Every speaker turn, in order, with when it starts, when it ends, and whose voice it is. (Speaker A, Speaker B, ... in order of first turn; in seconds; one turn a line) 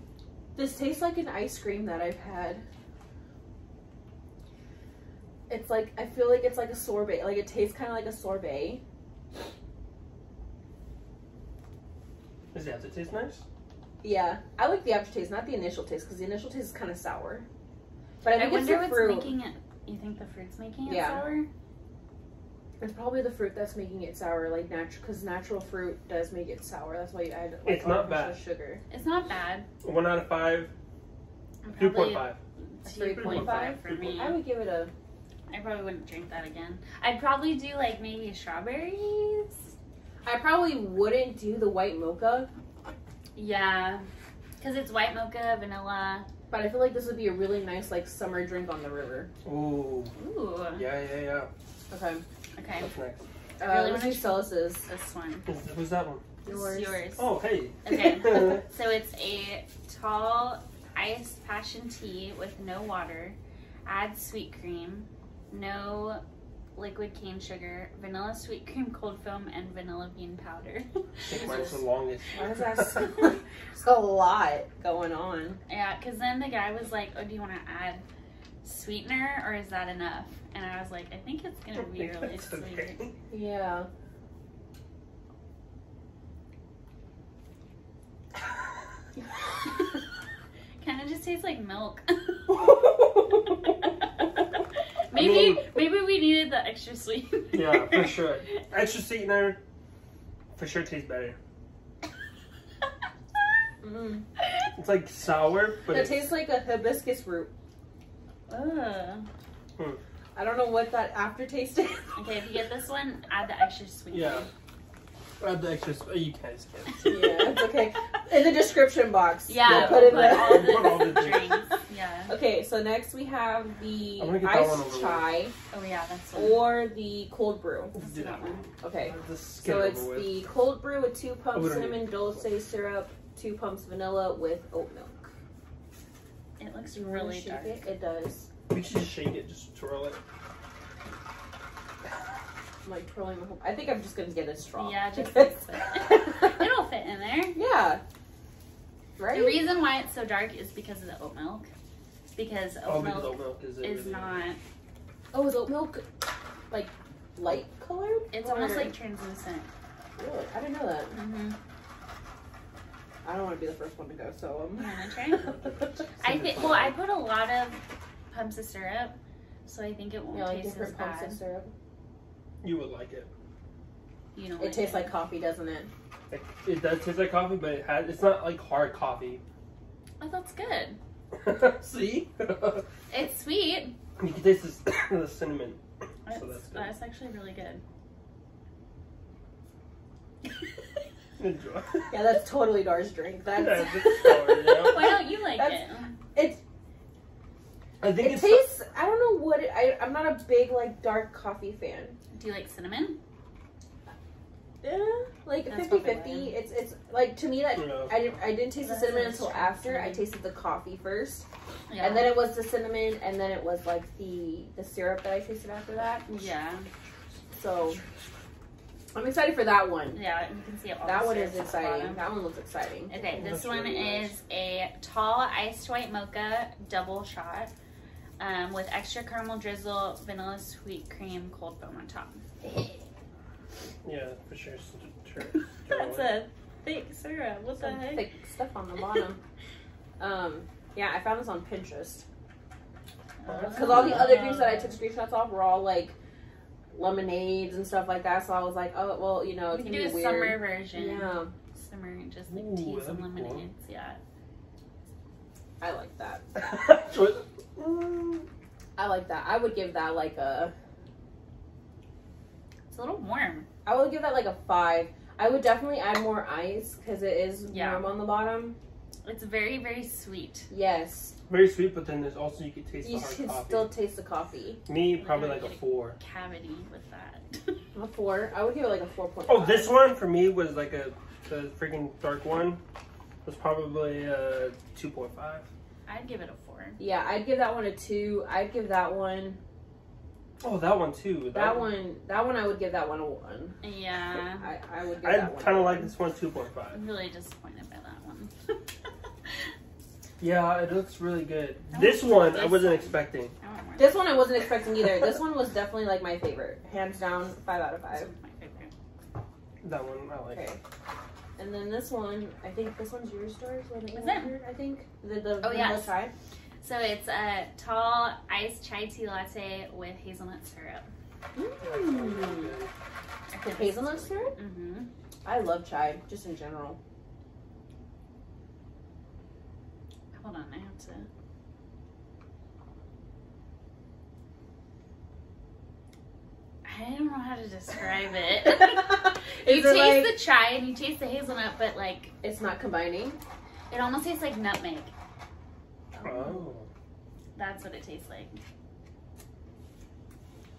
Speaker A: 0.5-2.6
Speaker A: 5.5-8.8
Speaker B: 12.5-13.4
Speaker A: 14.0-17.4
Speaker A: 18.2-19.3
Speaker C: 18.3-21.5
Speaker A: 20.8-21.2
Speaker A: 22.8-28.8
Speaker B: 27.6-28.4
Speaker C: 28.9-29.7
Speaker B: 29.8-30.7
Speaker C: 31.6-34.4
Speaker B: 31.8-32.4
Speaker A: 32.8-34.9
Speaker B: 33.0-34.2
Speaker C: 35.5-39.7
Speaker A: 40.2-42.5
Speaker C: 43.4-44.0
Speaker C: 44.6-46.2
Speaker A: 46.5-49.3
Speaker B: 49.4-50.1
Speaker C: 50.1-50.9
Speaker B: 50.8-51.5
Speaker A: 51.9-52.2
Speaker C: 52.5-52.9
Speaker B: 52.8-53.2
Speaker A: 53.6-54.9
Speaker C: 53.6-55.5
Speaker B: 55.5-56.2
Speaker A: 56.4-57.0
Speaker C: 56.5-57.3
Speaker B: 57.2-58.6
Speaker C: 57.8-66.2
Speaker C: 66.7-71.8
Speaker B: 71.3-73.1
Speaker A: 72.3-75.6
Speaker C: 75.7-78.0
Speaker C: 78.6-83.0
Speaker B: 81.7-83.1
Speaker A: 83.3-83.9
Speaker C: 90.8-92.6
Speaker C: 95.1-98.5
Speaker B: 95.1-95.7
Speaker B: 97.5-99.6
Speaker B: 100.5-101.4
Speaker A: 103.8-104.2
Speaker B: 104.8-106.3
Speaker A: 105.9-107.5
Speaker C: 108.5-109.3
Speaker A: 110.3-112.2
Speaker C: 112.1-114.5
Speaker B: 114.1-114.5
Speaker B: 115.4-117.5
Speaker A: 117.0-121.2
Speaker C: 119.5-122.3
Speaker B: 119.6-121.6
Speaker A: 122.3-125.5
Speaker B: 124.2-125.4
Speaker C: 125.7-126.7
Speaker A: 126.3-128.0
Speaker B: 127.9-130.4
Speaker C: 128.0-128.6
Speaker A: 128.8-135.3
Speaker B: 131.5-132.2
Speaker C: 136.6-137.8
Speaker A: 136.9-138.5
Speaker B: 138.7-140.2
Speaker A: 142.8-145.6
Speaker C: 144.8-147.6
Speaker A: 146.1-146.5
Speaker A: 147.5-148.0
Speaker A: 149.2-149.6
Speaker C: 149.3-151.7
Speaker C: 152.3-154.6
Speaker B: 152.8-154.3
Speaker A: 155.3-159.0
Speaker C: 158.3-159.7
Speaker A: 160.2-161.2
Speaker C: 161.1-161.6
Speaker A: 163.2-165.7
Speaker C: 164.8-165.5
Speaker B: 165.7-167.0
Speaker C: 166.2-169.1
Speaker C: 169.7-171.4
Speaker A: 170.3-171.7
Speaker B: 172.6-173.3
Speaker C: 174.3-175.1
Speaker A: 174.6-175.9
Speaker B: 176.3-179.4
Speaker C: 180.2-181.0
Speaker B: 181.4-182.8
Speaker C: 183.1-183.9
Speaker B: 184.2-186.9
Speaker C: 186.2-187.8
Speaker B: 191.4-192.2
Speaker A: 192.1-195.8
Speaker B: 193.5-195.2
Speaker C: 194.2-196.1
Speaker A: 196.3-196.6
Speaker B: 198.0-198.7
Speaker A: 198.2-202.2
Speaker C: 202.3-203.2
Speaker A: 204.8-211.4
Speaker C: 205.7-206.6
Speaker B: 207.8-208.3
Speaker C: 208.8-210.3
Speaker C: 211.9-212.3
Speaker A: 212.0-216.3
Speaker C: 216.2-216.9
Speaker A: 217.5-218.0
Speaker A: 219.1-220.2
Speaker C: 220.1-222.2
Speaker A: 221.0-223.2
Speaker C: 223.1-227.7
Speaker B: 223.3-224.3
Speaker C: 228.4-232.4
Speaker B: 234.0-236.4
Speaker C: 235.9-238.2
Speaker A: 237.8-239.4
Speaker A: 240.2-242.2
Speaker C: 243.4-245.0
Speaker B: 243.4-244.4
Speaker A: 243.7-246.1
Speaker A: 246.9-251.5
Speaker C: 249.7-254.2
Speaker B: 252.5-253.7
Speaker A: 255.8-256.4
Speaker B: 256.5-258.5
Speaker A: 259.0-260.7
Speaker C: 262.9-263.7
Speaker A: 263.8-268.8
Speaker C: 267.7-268.1
Speaker C: 269.2-270.7
Speaker A: 270.7-271.3
Speaker B: 271.5-273.9
Speaker A: 273.0-274.8
Speaker B: 274.9-276.2
Speaker C: 275.2-277.8
Speaker A: 277.9-280.0
Speaker B: 279.5-282.8
Speaker B: 283.4-285.7
Speaker C: 286.1-287.0
Speaker A: 287.0-289.6
Speaker B: 290.6-291.9
Speaker A: 291.5-293.8
Speaker C: 293.8-294.7
Speaker A: 294.6-296.1
Speaker B: 295.2-297.0
Speaker C: 296.9-298.5
Speaker B: 300.4-303.5
Speaker C: 301.9-304.4
Speaker A: 304.0-308.3
Speaker C: 308.1-308.9
Speaker B: 309.8-310.6
Speaker A: 310.5-310.8
Speaker A: 311.6-316.3
Speaker C: 314.1-314.5
Speaker C: 315.6-316.1
Speaker C: 316.8-321.1
Speaker A: 321.5-322.8
Speaker B: 321.8-322.9
Speaker C: 323.5-325.1
Speaker A: 323.6-324.6
Speaker A: 325.4-327.0
Speaker C: 330.3-331.3
Speaker C: 336.8-342.3
Speaker A: 338.6-340.4
Speaker A: 342.4-343.4
Speaker C: 343.9-345.1
Speaker A: 346.1-346.6
Speaker B: 346.2-346.9
Speaker C: 347.5-348.6